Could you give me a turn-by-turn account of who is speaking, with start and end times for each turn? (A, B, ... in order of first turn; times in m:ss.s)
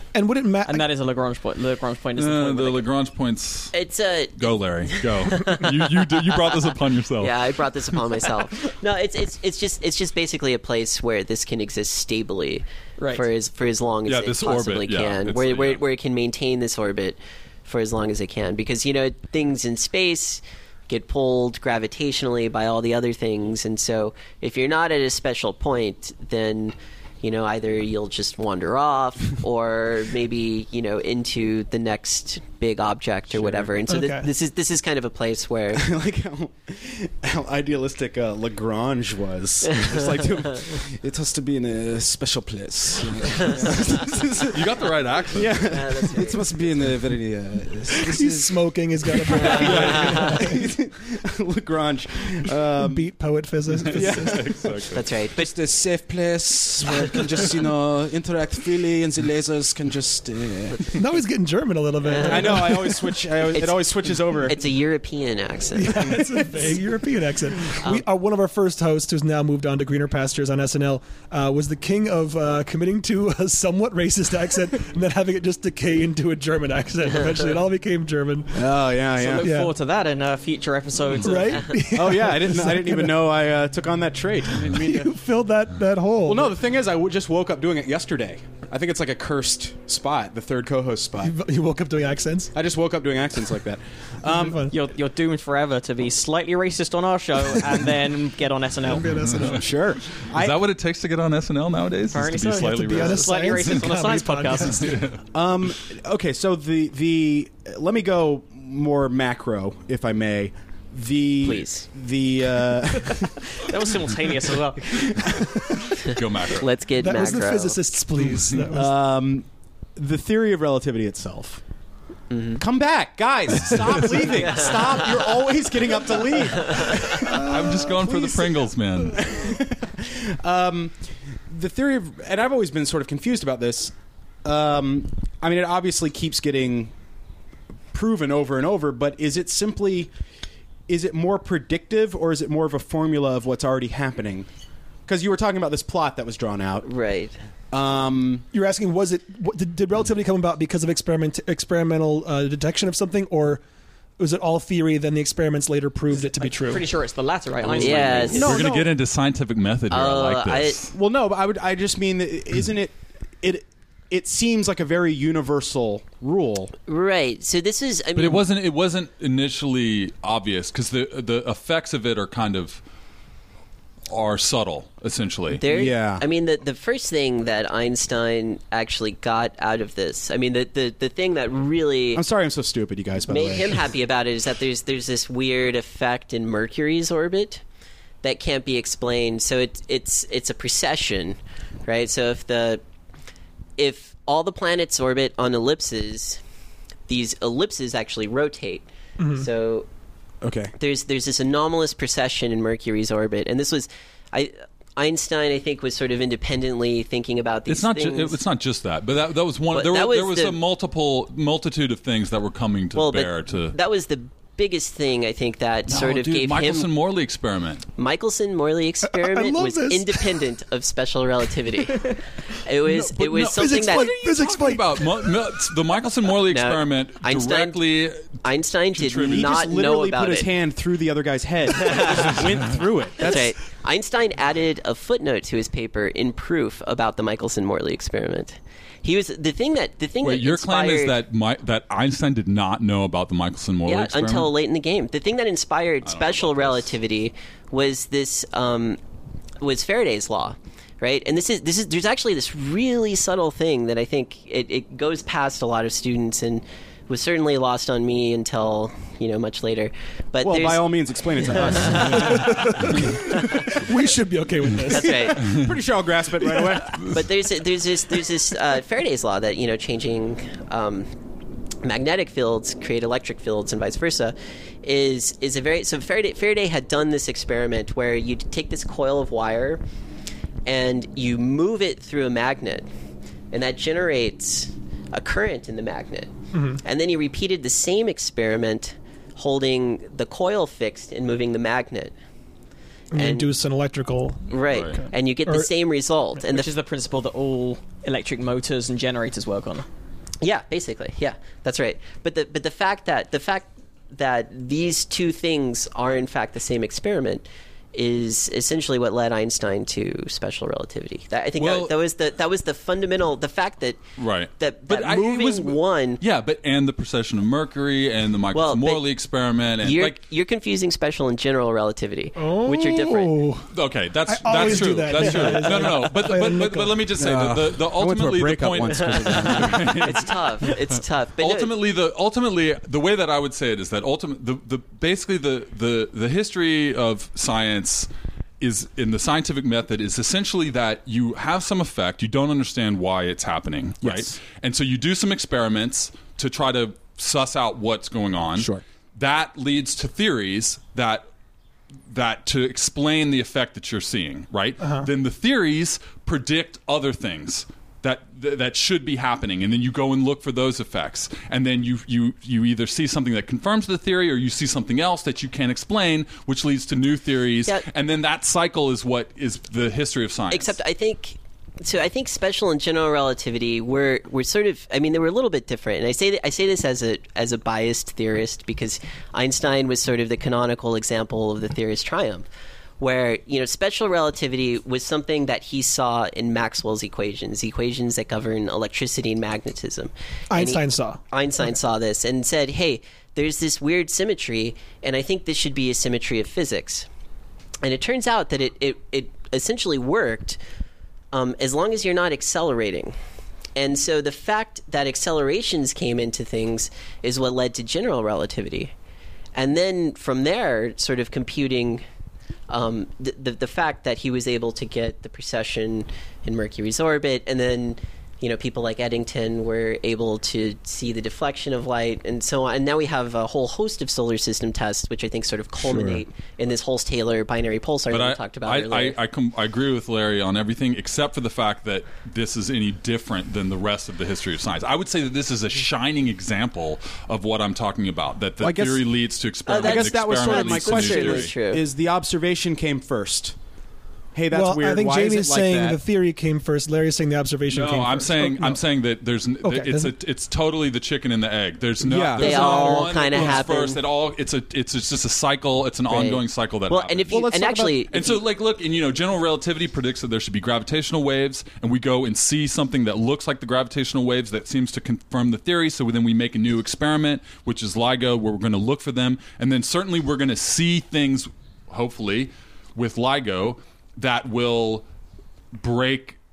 0:00.1-0:00.9 A
0:00.6-0:02.8 B
0:02.2-0:03.8 C
0:03.7-0:06.6 D
0:04.4-0:07.6 C
0:07.2-0:35.8 D
0:13.0-0:13.3 B
0:14.0-0:15.8 C
0:33.9-0:34.3 A
0:35.7-0:44.7 E
0:39.7-0:40.7 D
0:43.4-0:43.7 D
0:44.4-0:45.7 C
0:45.3-0:53.1 E
0:45.6-0:46.4 D
0:47.9-0:50.6 A
0:49.3-0:50.5 C
0:49.5-0:50.4 D
0:52.8-0:54.5 A
0:53.9-0:55.1 C
0:53.9-0:54.5 E
0:54.9-0:55.5 D
0:55.3-1:01.0 E
1:00.9-1:03.1 A
1:02.0-1:02.6 D
1:02.2-1:04.6 E
1:03.5-1:03.8 D
1:04.4-1:06.1 D
1:05.7-1:18.6 A
1:18.5-1:19.5 E
1:19.2-1:21.7 B
1:19.4-1:19.7 A
1:21.1-1:23.2 A
1:21.9-1:25.0 E
1:24.6-1:25.1 B
1:24.6-1:26.5 A
1:26.2-1:31.3 E
1:31.2-1:32.5 A
1:32.5-1:34.7 E
1:34.2-1:34.7 A
1:34.7-1:39.2 B
1:38.8-1:39.7 A
1:39.1-1:39.6 C
1:39.5-1:40.6 E
1:40.2-1:43.7 C
1:42.1-1:45.0 B
1:42.4-1:45.0 A
1:44.7-1:45.2 C
1:45.3-1:53.4 E
1:51.4-1:51.8 D
1:53.6-1:55.1 B
1:54.9-1:55.6 E
1:55.6-1:55.9 A
1:55.9-1:56.7 C
1:56.6-1:57.8 D
1:57.0-1:58.9 A
1:58.7-2:01.6 E
2:02.3-2:02.6 D
2:02.6-2:10.9 E
2:04.3-2:05.3 D
2:06.6-2:07.1 D
2:07.2-2:09.5 C
2:11.5-2:13.9 E
2:14.4-2:16.9 E
2:17.9-2:20.1 E
2:20.9-2:24.5 E
2:25.0-2:26.9 E
2:26.8-2:27.4 D
2:27.7-2:28.4 E
2:28.5-2:33.6 A
2:34.2-2:36.9 A
2:36.2-2:38.6 B
2:37.6-2:38.9 E
2:37.8-2:38.6 D
2:38.0-2:40.9 C
2:39.9-2:40.9 D
2:40.9-2:46.7 E
2:46.9-2:48.4 D
2:48.1-2:52.8 C
2:54.1-2:55.6 C
2:55.6-3:02.2 D
2:55.6-2:56.2 E
3:02.1-3:03.9 E
3:03.3-3:07.6 D
3:08.2-3:12.8 D
3:13.8-3:16.4 D
3:17.1-3:19.9 D
3:19.2-3:19.4 A
3:20.4-3:20.7 E
3:20.8-3:28.4 D
3:27.7-3:33.8 C
3:29.7-3:30.6 D
3:32.9-3:36.9 D
3:35.9-3:37.9 C
3:38.0-3:44.1 D
3:39.0-3:40.4 A
3:42.8-3:48.4 C
3:43.5-3:45.1 A
3:46.5-3:47.8 D
3:48.3-3:50.5 D
3:48.9-3:49.5 C
3:49.2-3:53.5 E
3:51.8-3:52.4 D
3:53.2-4:01.2 D
4:00.2-4:04.5 C
4:03.8-4:09.0 D
4:06.0-4:06.9 C
4:09.6-4:20.8 D
4:20.4-4:22.5 E
4:21.6-4:22.4 D
4:22.0-4:25.4 A
4:24.9-4:25.5 D
4:25.1-4:27.0 E
4:26.9-4:31.1 D
4:31.8-4:39.8 D
4:40.6-4:42.9 D
4:43.5-4:52.1 D
4:46.5-4:46.8 A
4:53.1-4:55.7 A
4:53.2-4:53.5 D
4:54.5-4:56.7 D
4:54.7-4:55.0 C
4:56.5-4:59.8 B
5:00.4-5:14.0 D
5:11.6-5:12.0 C
5:14.2-5:20.2 C
5:14.6-5:16.2 D
5:18.5-5:19.0 D
5:19.8-5:23.4 D
5:22.4-5:23.7 A
5:23.7-5:30.8 C
5:24.2-5:27.1 A
5:27.2-5:30.3 E
5:29.2-5:31.7 D
5:31.4-5:38.1 C
5:38.6-5:51.2 C
5:44.0-5:44.4 E
5:48.6-5:48.8 E
5:52.1-6:10.8 C
6:10.5-6:22.5 D
6:23.0-6:37.1 D
6:30.5-6:31.2 A
6:37.8-6:40.6 D
6:41.3-6:43.1 D
6:43.8-6:48.9 D
6:49.5-6:52.0 D
6:52.7-7:09.2 D
7:05.8-7:06.2 E
7:08.1-7:21.5 C
7:18.6-7:19.1 E
7:19.7-7:21.8 D
7:19.7-7:23.5 E
7:24.3-7:26.0 E
7:24.5-7:28.8 A
7:27.7-7:37.4 C
7:29.6-7:30.1 A
7:32.0-7:33.6 E
7:32.4-7:34.0 D
7:36.1-7:38.4 D
7:37.3-7:38.1 E
7:38.1-7:55.0 C
7:55.7-7:56.4 C